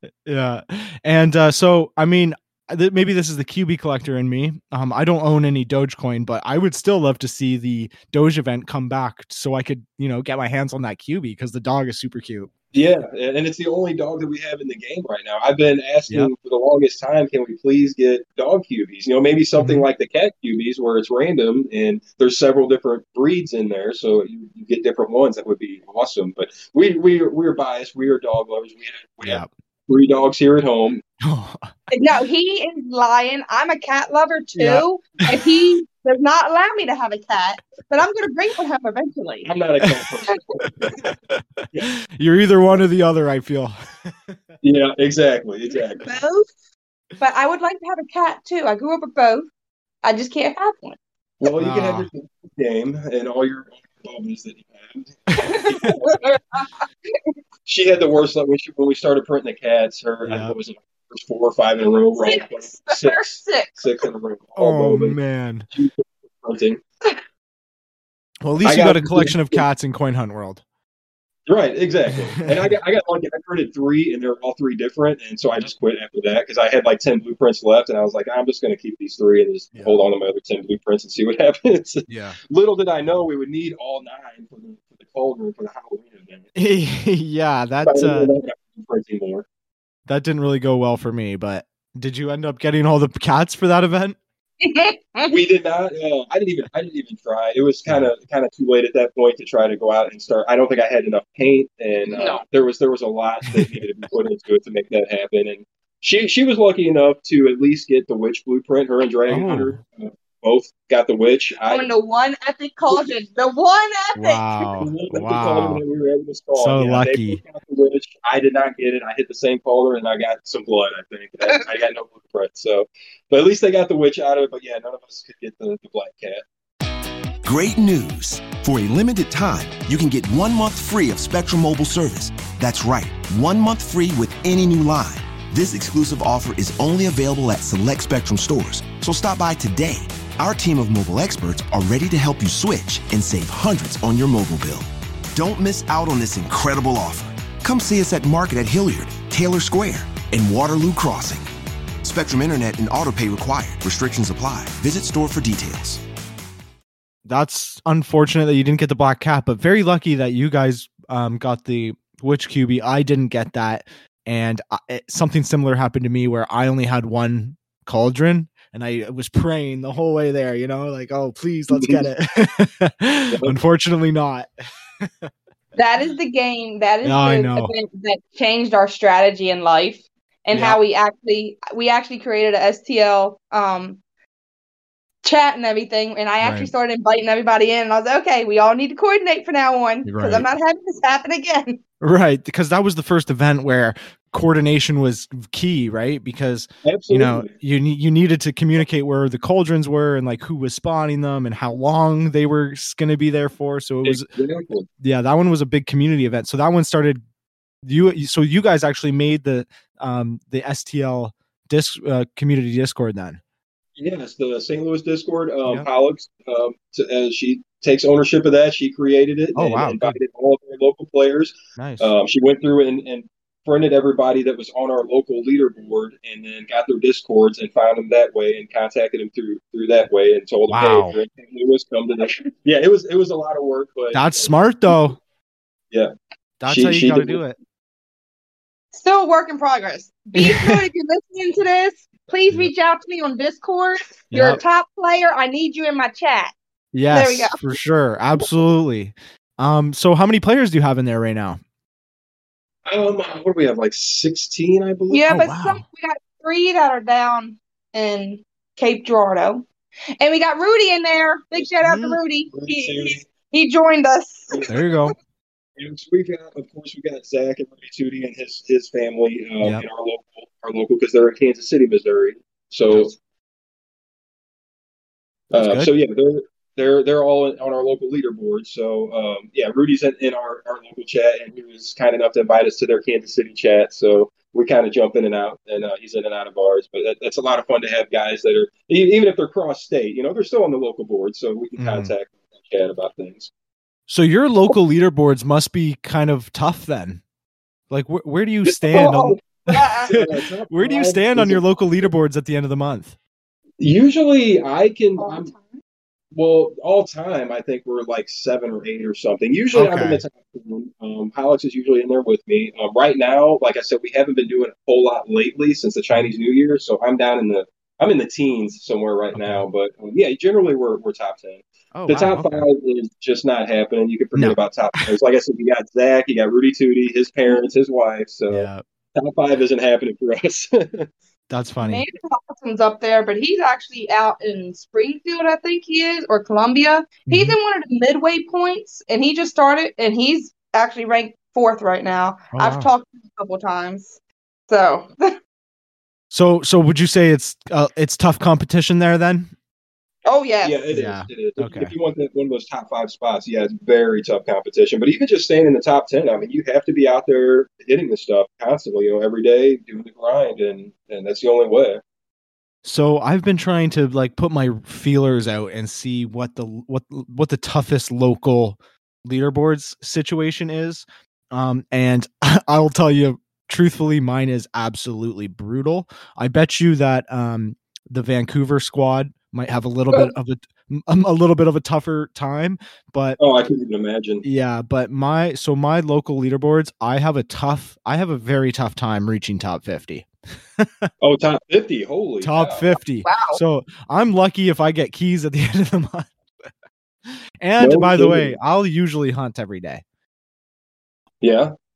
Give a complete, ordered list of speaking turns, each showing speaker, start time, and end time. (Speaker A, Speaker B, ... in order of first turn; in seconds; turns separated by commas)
Speaker A: 0.2-12.5, Speaker B: 12.7-31.0, Speaker A: 19.6-19.9, Speaker A: 29.2-29.5, Speaker A: 31.2-31.7, Speaker C: 31.9-39.5, Speaker A: 34.6-35.4, Speaker B: 39.5-41.1, Speaker A: 41.0-44.4, Speaker B: 44.6-46.0, Speaker C: 46.0-46.5, Speaker C: 47.2-49.5, Speaker C: 50.0-51.0, Speaker B: 51.4-56.0, Speaker A: 51.6-52.1, Speaker C: 55.3-56.8, Speaker B: 57.6-65.2, Speaker A: 60.2-60.5, Speaker C: 62.2-63.9, Speaker A: 64.6-65.7, Speaker B: 65.7-66.8, Speaker A: 68.4-70.6, Speaker B: 68.6-69.6, Speaker B: 71.5-86.5, Speaker A: 72.1-72.7, Speaker A: 82.1-82.3, Speaker A: 86.5-88.3, Speaker B: 87.8-89.4, Speaker A: 90.1-94.2, Speaker C: 94.6-95.3, Speaker B: 95.3-111.9, Speaker C: 102.1-102.4, Speaker A: 109.3-109.8, Speaker C: 111.7-114.7, Speaker A: 114.2-115.8, Speaker B: 114.8-126.4, Speaker A: 116.5-117.4, Speaker D: 127.4-151.5, Speaker D: 152.0-156.0, Speaker A: 157.2-174.5, Speaker B: 171.7-172.0, Speaker A: 175.0-175.3, Speaker C: 175.8-184.0, Speaker A: 177.0-177.7, Speaker A: 180.5-180.8, Speaker C: 185.2-191.8, Speaker A: 186.4-186.7, Speaker A: 190.0-190.5, Speaker A: 192.0-204.2, Speaker B: 196.8-197.5, Speaker B: 204.0-204.9, Speaker A: 205.0-207.2, Speaker A: 207.8-213.4, Speaker B: 214.0-234.5, Speaker A: 219.6-220.2, Speaker A: 221.8-222.1, Speaker A: 230.7-231.1, Speaker A: 234.1-235.2, Speaker A: 236.6-237.5, Speaker B: 236.6-237.4, Speaker C: 238.9-246.5, Speaker A: 240.4-240.8, Speaker A: 244.3-244.6, Speaker A: 246.9-251.6, Speaker C: 247.1-247.6, Speaker B: 252.9-255.3, Speaker C: 255.1-259.6, Speaker A: 255.3-255.8, Speaker C: 260.2-264.7, Speaker A: 261.8-262.2, Speaker B: 262.5-263.2, Speaker A: 264.7-265.1, Speaker B: 265.8-273.1, Speaker A: 269.6-269.9, Speaker B: 275.5-293.5, Speaker A: 275.6-275.9, Speaker A: 291.8-292.1, Speaker A: 294.1-297.2, Speaker A: 297.9-303.1, Speaker B: 298.7-299.4, Speaker C: 298.9-300.1, Speaker B: 300.0-301.6, Speaker B: 303.8-305.5, Speaker C: 305.2-305.7, Speaker B: 306.3-331.1, Speaker A: 309.7-310.2, Speaker A: 319.3-319.6, Speaker A: 321.9-322.6, Speaker A: 328.5-328.8, Speaker A: 331.5-332.0, Speaker C: 331.8-344.2, Speaker A: 337.3-337.6, Speaker A: 342.5-342.9, Speaker C: 344.7-345.2, Speaker A: 346.3-349.5, Speaker C: 350.2-350.8, Speaker B: 350.6-362.0, Speaker A: 350.9-351.9, Speaker A: 362.8-383.4, Speaker B: 383.4-384.4, Speaker A: 384.4-391.1, Speaker B: 391.2-392.9, Speaker A: 392.4-396.3, Speaker C: 393.2-393.6, Speaker A: 397.6-400.0, Speaker B: 397.8-398.5, Speaker B: 401.4-401.7